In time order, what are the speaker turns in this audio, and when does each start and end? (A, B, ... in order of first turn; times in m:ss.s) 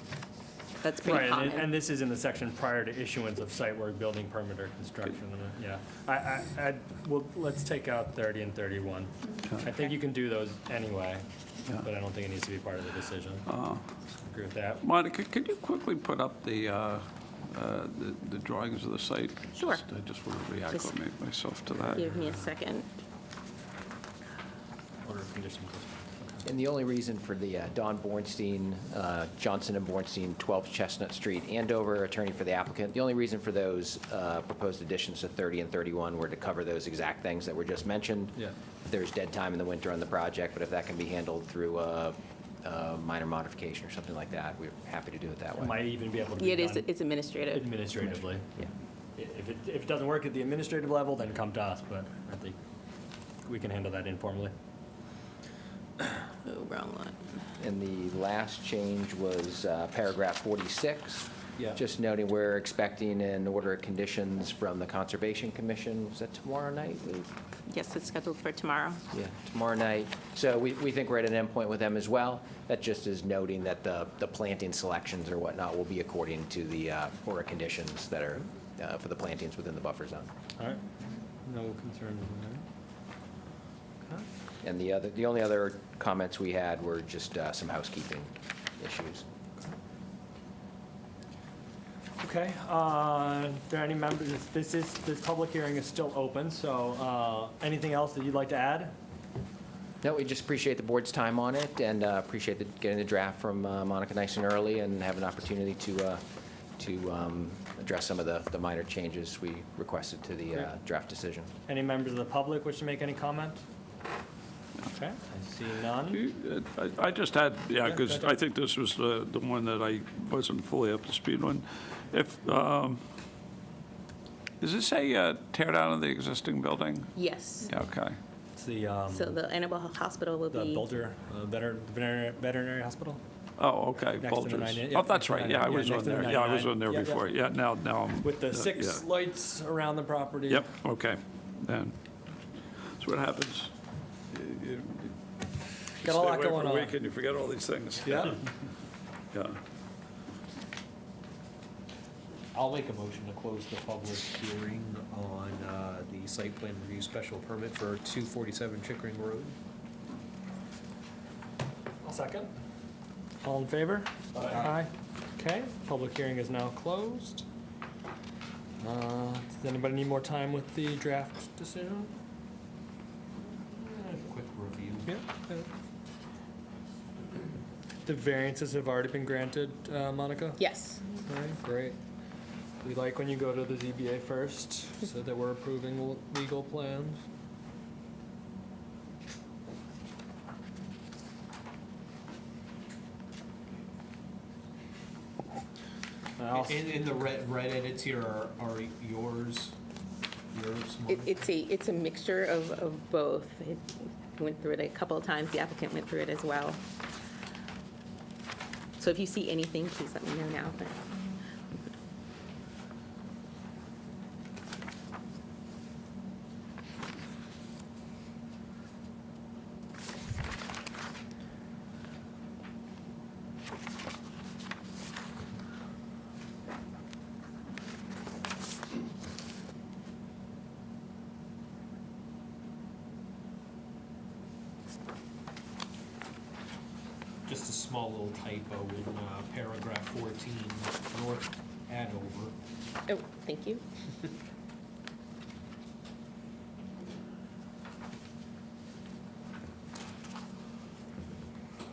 0:00.8-0:01.7 A
0:01.0-0:11.2 B
0:11.8-0:13.4 B
0:13.5-0:13.8 C
0:14.2-0:14.8 B
0:14.8-0:21.9 C
0:19.6-0:19.8 A
0:21.8-0:22.5 B
0:21.9-0:22.9 A
0:25.0-0:26.4 B
0:26.4-0:45.8 D
0:45.6-0:46.9 B
0:46.4-0:47.9 A
0:47.5-0:48.6 B
0:49.2-0:52.6 B
0:53.4-0:54.5 B
0:56.4-0:57.3 A
0:57.6-1:07.3 D
1:07.7-1:09.0 A
1:09.1-1:20.3 D
1:20.6-1:20.8 B
1:21.4-1:22.7 B
1:24.6-1:29.2 D
1:32.2-1:38.9 B
1:40.0-1:46.2 D
1:46.8-1:51.5 D
1:51.7-1:53.6 B
1:54.8-1:56.2 B
1:56.1-2:03.0 C
1:57.8-1:58.4 B
2:04.6-2:07.1 C
2:07.2-2:07.7 A
2:07.7-2:08.2 C
2:08.6-2:09.4 B
2:09.1-2:10.8 A
2:10.5-2:13.2 B
2:13.6-2:19.0 C
2:14.2-2:17.3 B
2:18.2-2:20.8 B
2:20.5-2:22.0 C
2:23.0-2:23.7 C
2:24.3-2:25.1 C
2:26.0-2:27.0 B
2:26.1-2:28.4 C
2:28.0-2:28.4 B
2:29.3-2:29.6 C
2:32.5-2:39.6 E
2:42.0-2:42.5 B
2:43.4-2:47.4 B
2:48.8-2:52.1 B
2:54.0-2:55.1 E
2:55.1-2:55.7 B
2:58.1-3:02.0 B
3:00.6-3:01.0 A
3:02.8-3:07.2 B
3:16.4-3:16.8 B
3:16.6-3:19.8 E
3:20.5-3:21.4 E
3:21.1-3:26.8 A
3:29.0-3:31.0 A
3:57.5-4:02.5 E
4:03.1-4:03.8 A